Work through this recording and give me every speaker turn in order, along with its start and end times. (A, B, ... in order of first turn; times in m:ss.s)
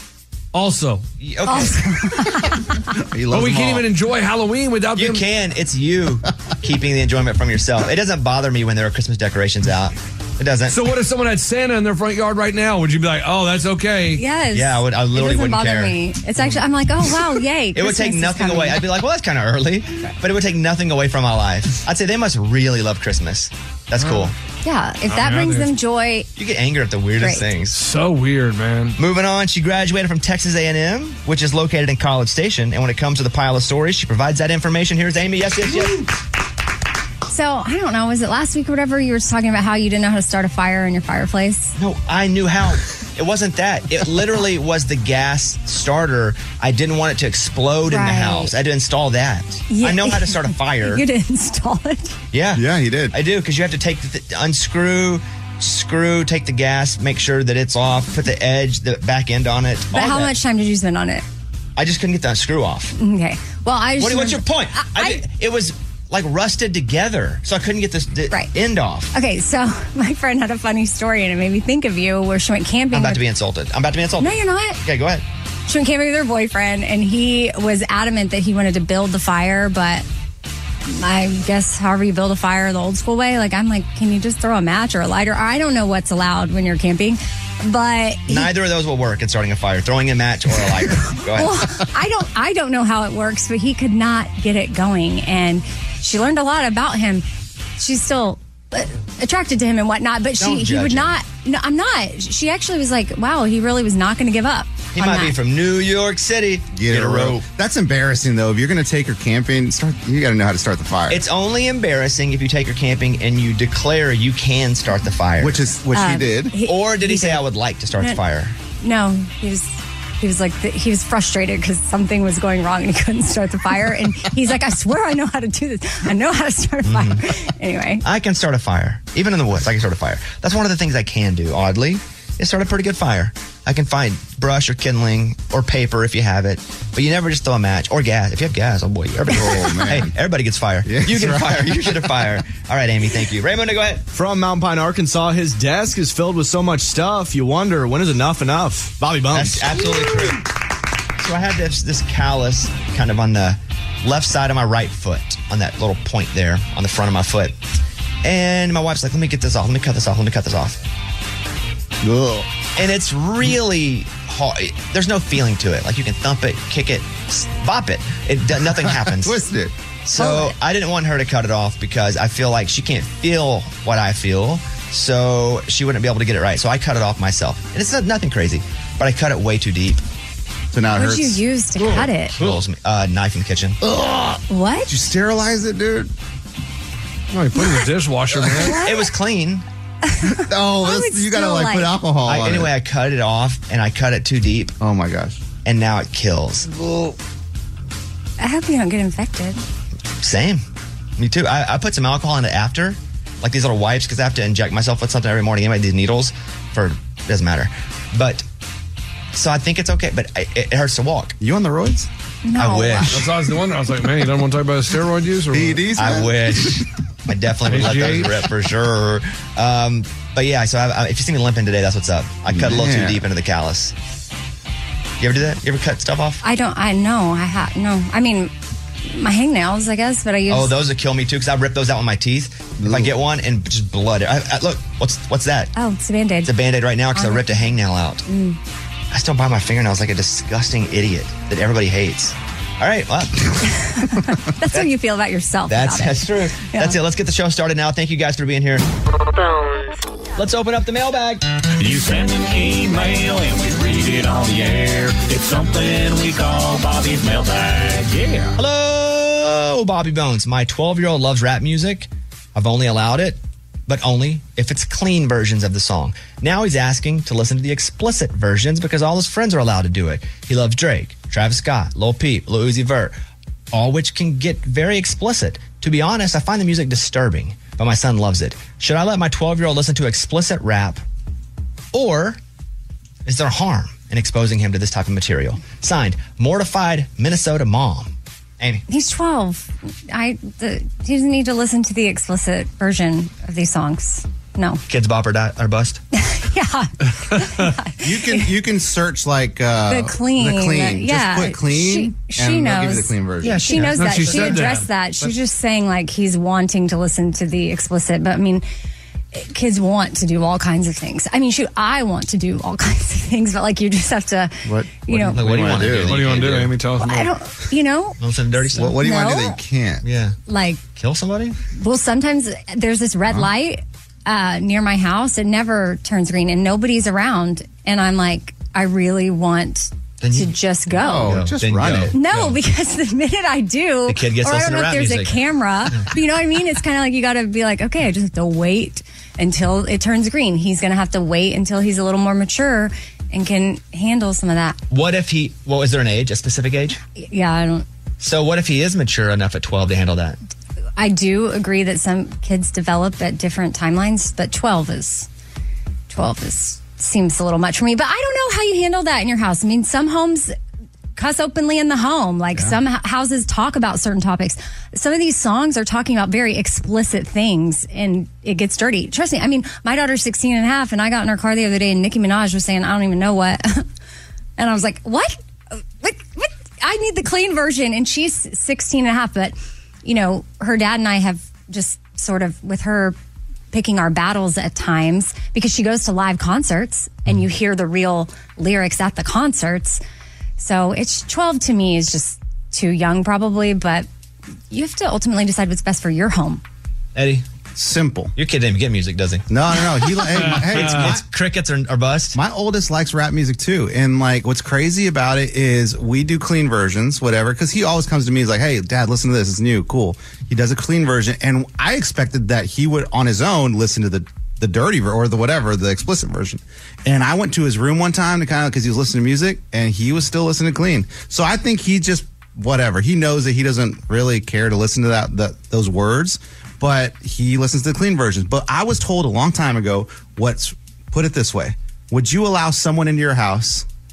0:00.5-0:01.0 A
0:01.2-0:01.8 B
0:01.4-0:02.8 C
0:03.0-0:03.9 D
0:03.3-0:05.2 A
0:05.0-0:10.8 B
0:10.7-0:14.2 A
0:14.2-0:18.8 C
0:14.5-0:16.0 B
0:17.7-0:24.3 B
0:24.0-0:24.3 A
0:24.6-0:26.3 C
0:25.1-0:25.7 A
0:26.4-0:27.8 B
0:27.2-0:27.5 C
0:27.7-0:29.0 A
0:29.0-0:36.0 B
0:37.3-0:41.7 C
0:41.8-0:51.0 B
0:47.9-0:48.5 C
0:49.7-0:52.2 C
0:52.3-1:00.3 B
0:52.5-0:53.1 D
0:59.9-1:01.2 C
1:01.8-1:02.9 B
1:03.0-1:05.2 C
1:04.0-1:09.1 B
1:09.1-1:13.2 C
1:12.9-1:15.2 B
1:14.2-1:14.8 C
1:15.7-1:20.0 C
1:20.8-1:28.5 C
1:28.3-1:31.8 B
1:31.4-1:37.2 C
1:37.8-1:45.3 C
1:40.4-1:41.1 B
1:44.9-1:47.4 B
1:46.7-1:51.2 D
1:51.1-1:55.7 B
1:55.4-1:56.6 D
1:55.9-1:57.4 C
1:56.6-1:58.6 B
1:58.8-2:08.0 C
2:06.8-2:07.2 B
2:08.0-2:24.0 B
2:19.3-2:20.1 D
2:20.8-2:22.1 D
2:24.1-2:29.6 E
2:29.3-2:30.4 B
2:31.2-2:37.6 B
2:38.2-2:40.8 B
2:42.0-2:42.5 D
2:42.8-2:49.3 B
2:48.6-2:49.7 D
2:50.0-3:00.0 B
2:50.2-2:50.6 C
3:00.7-3:01.4 D
3:00.9-3:02.4 C
3:02.4-3:03.8 B
3:03.8-3:06.1 D
3:04.5-3:04.9 C
3:07.3-3:08.8 A
3:08.3-3:08.7 D
3:08.6-3:09.1 C
3:08.7-3:09.6 B
3:10.0-3:11.9 C
3:10.2-3:12.7 D
3:12.2-3:14.7 B
3:14.8-3:15.4 D
3:15.6-3:16.6 B
3:18.4-3:19.6 C
3:20.2-3:20.6 B
3:21.2-3:28.4 B
3:29.3-3:31.3 B
3:31.4-3:32.1 D
3:32.4-3:33.1 C
3:32.6-3:33.2 B
3:33.1-3:35.8 A
3:35.5-3:36.8 D
3:35.9-3:43.9 B
3:37.6-3:38.4 A
3:42.5-3:43.2 D
3:45.2-3:46.4 B
3:46.4-3:48.5 C
3:49.1-3:50.7 C
3:50.5-3:55.7 B
3:52.8-3:53.1 D
3:55.7-3:56.5 C
3:56.4-3:58.2 B
3:57.1-3:58.6 C
3:59.1-4:03.8 B
4:03.9-4:07.0 C
4:05.7-4:08.8 B
4:10.4-4:11.5 B
4:11.8-4:18.5 F
4:18.6-4:33.2 B
4:33.7-4:41.0 B
4:41.9-4:42.4 B
4:43.2-4:48.8 B
4:48.9-4:54.8 C
4:54.9-4:56.0 B
4:56.2-4:58.5 C
4:57.1-4:57.7 A
4:58.0-5:04.6 D
4:59.9-5:08.6 C
5:03.4-5:04.6 B
5:03.8-5:04.9 A
5:09.3-5:15.7 C
5:14.6-5:16.6 D
5:15.3-5:16.7 B
5:16.1-5:17.3 A
5:17.0-5:18.2 C
5:18.2-5:19.0 B
5:18.7-5:20.0 D
5:18.9-5:19.6 C
5:20.0-5:20.4 B
5:20.5-5:20.8 C
5:20.9-5:21.6 B
5:21.8-5:31.4 C
5:30.2-5:32.6 B
5:30.9-5:32.2 D
5:32.1-5:44.8 C
5:34.1-5:35.4 B
5:44.9-5:47.0 B
5:47.2-5:47.8 C
5:48.2-5:50.4 B
5:51.0-5:55.3 C
5:56.1-6:00.5 C
6:01.2-6:13.8 C
6:14.6-6:15.4 C
6:16.0-6:23.2 C
6:23.7-6:30.0 C
6:30.6-6:34.1 C
6:34.7-6:36.6 C
6:37.1-6:37.4 B
6:37.8-6:38.3 D
6:38.4-6:39.4 B
6:39.5-6:41.2 D
6:40.4-6:41.1 A
6:40.5-6:42.4 B
6:42.3-7:13.8 D